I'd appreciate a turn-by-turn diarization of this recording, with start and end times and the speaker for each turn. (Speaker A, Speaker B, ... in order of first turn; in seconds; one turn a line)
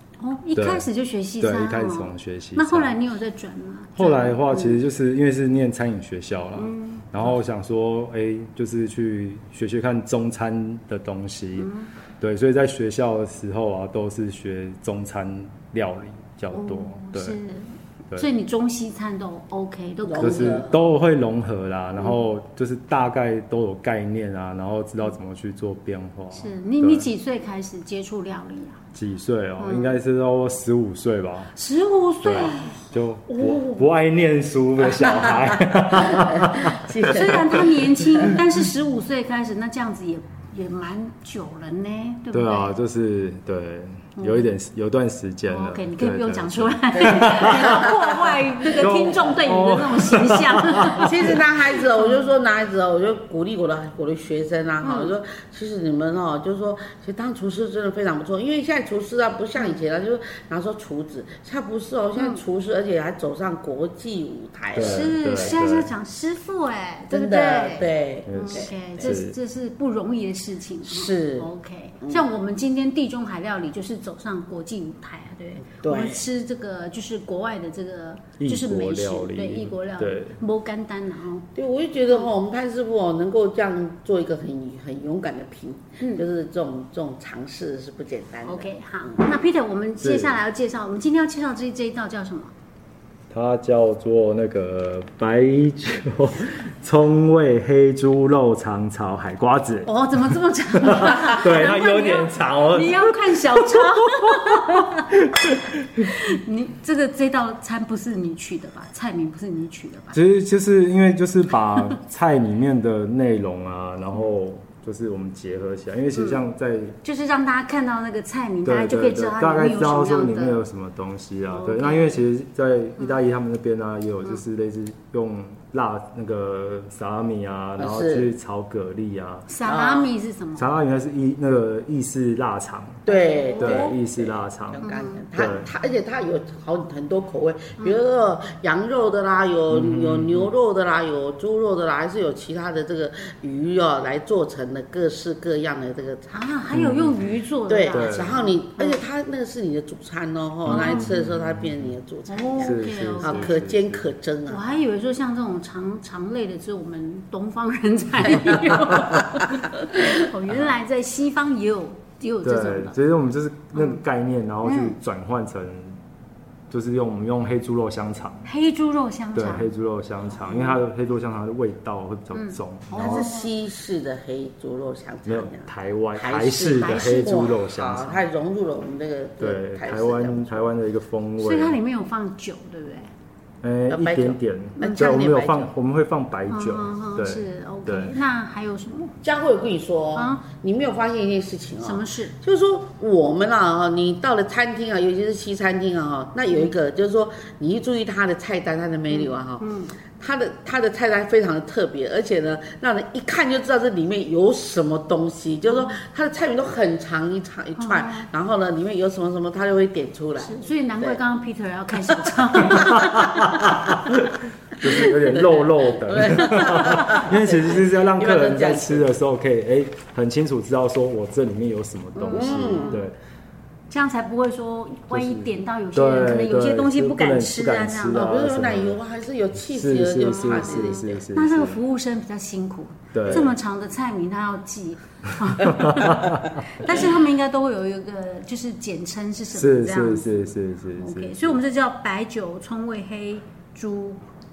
Speaker A: 0.2-4.8
Speaker B: 0.6-0.9
Speaker B: 1.4-2.9
Speaker B: 4.0-17.4
Speaker A: 6.6-7.3
Speaker A: 11.6-11.9
Speaker A: 16.5-20.6
Speaker C: 20.1-20.8
Speaker B: 20.2-27.1
Speaker A: 26.4-28.8
Speaker B: 28.9-31.5
Speaker A: 29.6-30.0
Speaker A: 31.6-33.8
Speaker B: 32.2-37.6
Speaker C: 35.1-38.4
Speaker A: 37.1-42.8
Speaker B: 42.3-48.0
Speaker A: 44.2-44.5
Speaker A: 45.5-52.3
Speaker C: 47.0-48.2
Speaker B: 48.7-51.4
Speaker C: 51.0-65.5
Speaker A: 54.8-55.1
Speaker A: 62.2-62.4
Speaker B: 64.7-65.9
Speaker A: 64.8-81.5
Speaker C: 67.1-69.2
Speaker B: 68.3-69.4
Speaker C: 70.9-71.5
Speaker C: 75.7-76.2
Speaker B: 78.4-80.4
Speaker C: 81.6-88.7
Speaker A: 88.5-92.5
Speaker B: 90.0-90.4
Speaker B: 93.3-99.9
Speaker A: 99.8-105.1
Speaker B: 100.8-106.1
Speaker A: 106.0-110.2
Speaker B: 110.1-117.0
Speaker A: 116.2-116.4
Speaker A: 117.0-120.6
Speaker B: 118.6-129.5
Speaker A: 121.5-122.2
Speaker C: 127.8-128.3
Speaker A: 129.5-130.7
Speaker C: 129.7-130.1
Speaker B: 130.6-133.0
Speaker C: 133.1-146.4
Speaker A: 133.1-134.0
Speaker B: 133.6-135.7
Speaker A: 134.8-135.2
Speaker B: 139.7-140.5
Speaker A: 146.3-149.0
Speaker B: 146.7-147.3
Speaker C: 147.7-154.7
Speaker B: 147.9-148.4
Speaker B: 150.7-151.8
Speaker A: 150.7-151.1
Speaker A: 152.3-153.6
Speaker B: 152.6-154.1
Speaker A: 154.5-163.0
Speaker C: 158.2-160.2
Speaker B: 158.5-159.1
Speaker B: 162.4-166.0
Speaker A: 163.7-164.0
Speaker A: 164.6-165.0
Speaker B: 166.7-168.5
Speaker A: 168.5-169.7
Speaker B: 169.3-173.3
Speaker A: 172.3-173.5
Speaker C: 173.0-180.7
Speaker B: 175.3-178.2
Speaker A: 176.8-177.4
Speaker B: 179.4-181.8
Speaker A: 181.4-183.1
Speaker B: 183.6-188.1
Speaker C: 183.9-185.7
Speaker A: 186.5-189.2
Speaker C: 189.2-199.6
Speaker A: 190.2-190.4
Speaker A: 191.8-192.3
Speaker A: 199.1-200.0
Speaker C: 200.2-211.2
Speaker A: 205.7-206.0
Speaker A: 207.8-208.3
Speaker A: 210.4-213.9
Speaker C: 212.5-213.2
Speaker B: 212.7-223.2
Speaker C: 214.9-219.1
Speaker A: 216.6-216.9
Speaker A: 222.2-223.1
Speaker C: 222.3-223.0
Speaker A: 223.9-228.2
Speaker B: 225.1-229.0
Speaker C: 228.2-231.2
Speaker B: 229.7-231.8
Speaker A: 230.2-244.2
Speaker B: 233.1-233.6
Speaker B: 235.6-236.6
Speaker B: 239.5-241.6